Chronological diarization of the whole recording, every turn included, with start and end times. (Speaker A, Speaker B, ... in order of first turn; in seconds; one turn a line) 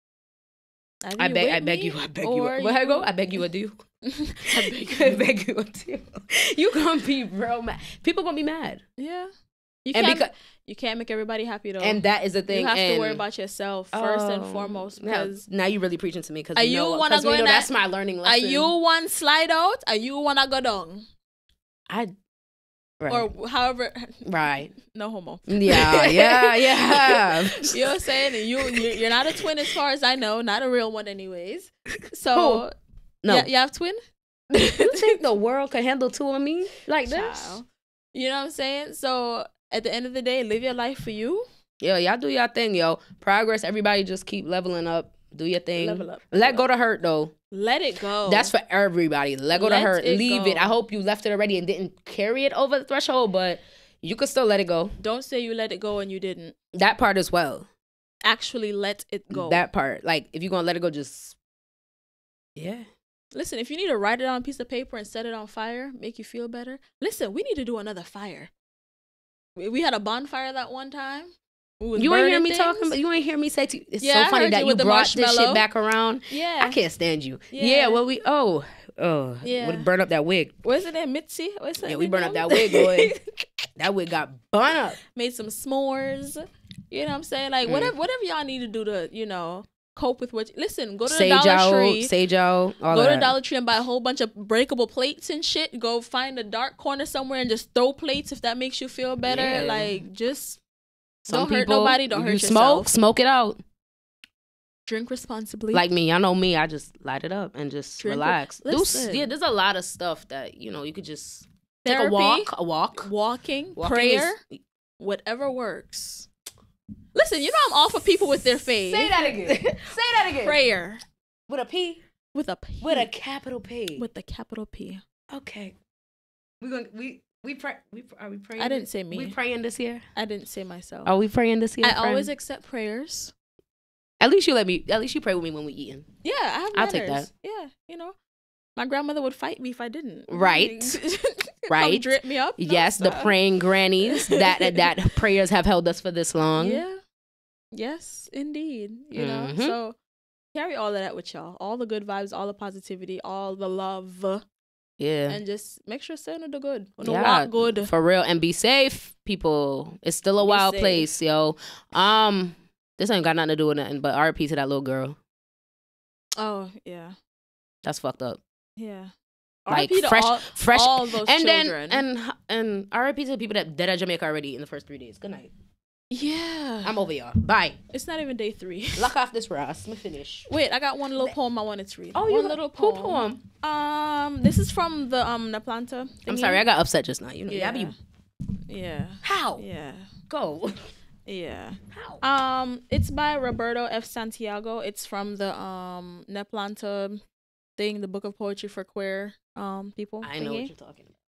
Speaker A: 1.0-3.1
Speaker B: 1.2-3.8
Speaker A: 4.0-5.2
Speaker B: 4.5-8.8
Speaker A: 9.0-9.3
Speaker A: 9.8-15.4
Speaker B: 9.9-10.3
Speaker B: 11.8-13.2
Speaker B: 13.9-18.7
Speaker A: 16.6-17.7
Speaker A: 18.2-21.1
Speaker B: 23.0-23.3
Speaker A: 23.1-32.7
Speaker B: 24.2-24.7
Speaker B: 25.5-29.5
Speaker B: 32.3-32.6
Speaker B: 33.2-33.5
Speaker A: 33.3-34.0
Speaker A: 34.5-35.2
Speaker B: 34.8-37.6
Speaker A: 37.1-41.5
Speaker B: 41.8-47.3
Speaker A: 45.8-46.6
Speaker A: 47.5-48.5
Speaker B: 48.2-55.0
Speaker A: 49.5-50.7
Speaker A: 55.0-56.6
Speaker B: 56.7-57.7
Speaker A: 58.2-59.6
Speaker B: 59.3-61.4
Speaker B: 62.6-62.9
Speaker A: 63.3-68.5
Speaker A: 69.6-73.0
Speaker B: 72.0-80.5
Speaker A: 74.0-75.6
Speaker A: 76.3-76.8
Speaker A: 77.5-78.0
Speaker A: 79.4-79.9
Speaker A: 80.6-83.2
Speaker B: 81.8-83.2
Speaker B: 83.8-85.0
Speaker A: 85.1-92.1
Speaker B: 87.7-88.0
Speaker B: 91.1-93.3
Speaker A: 92.9-100.6
Speaker B: 99.3-100.0
Speaker A: 101.2-102.9
Speaker B: 101.3-103.6
Speaker A: 104.9-105.8
Speaker B: 105.7-113.1
Speaker A: 108.0-109.3
Speaker A: 111.8-114.4
Speaker B: 113.8-114.6
Speaker A: 115.0-116.3
Speaker A: 117.2-121.0
Speaker B: 117.6-120.6
Speaker B: 121.5-122.0
Speaker A: 122.3-123.1
Speaker B: 122.8-124.1
Speaker A: 124.0-125.0
Speaker B: 125.3-125.8
Speaker B: 126.6-130.1
Speaker A: 128.6-129.4
Speaker A: 130.2-131.1
Speaker B: 131.1-132.3
Speaker A: 131.8-133.3
Speaker B: 134.2-136.1
Speaker A: 136.2-138.2
Speaker B: 136.7-137.3
Speaker A: 138.8-143.4
Speaker B: 140.3-141.0
Speaker B: 141.7-146.8
Speaker A: 144.0-144.9
Speaker A: 146.6-147.0
Speaker A: 147.7-150.0
Speaker B: 149.2-149.8
Speaker A: 150.5-154.4
Speaker B: 155.0-155.4
Speaker A: 155.3-157.9
Speaker B: 157.0-165.2
Speaker A: 160.4-161.1
Speaker A: 166.4-167.2
Speaker B: 167.8-168.4
Speaker A: 168.8-169.1
Speaker A: 169.7-172.1
Speaker B: 169.7-175.5
Speaker A: 176.1-176.9
Speaker B: 176.8-177.8
Speaker A: 177.9-179.1
Speaker B: 179.0-180.5
Speaker A: 180.5-186.6
Speaker B: 182.2-183.4
Speaker B: 186.3-187.9
Speaker A: 187.5-188.0
Speaker A: 188.7-190.1
Speaker B: 189.2-189.7
Speaker B: 190.3-190.9
Speaker A: 191.3-197.2
Speaker B: 191.9-192.2
Speaker A: 197.8-200.7
Speaker B: 200.2-201.1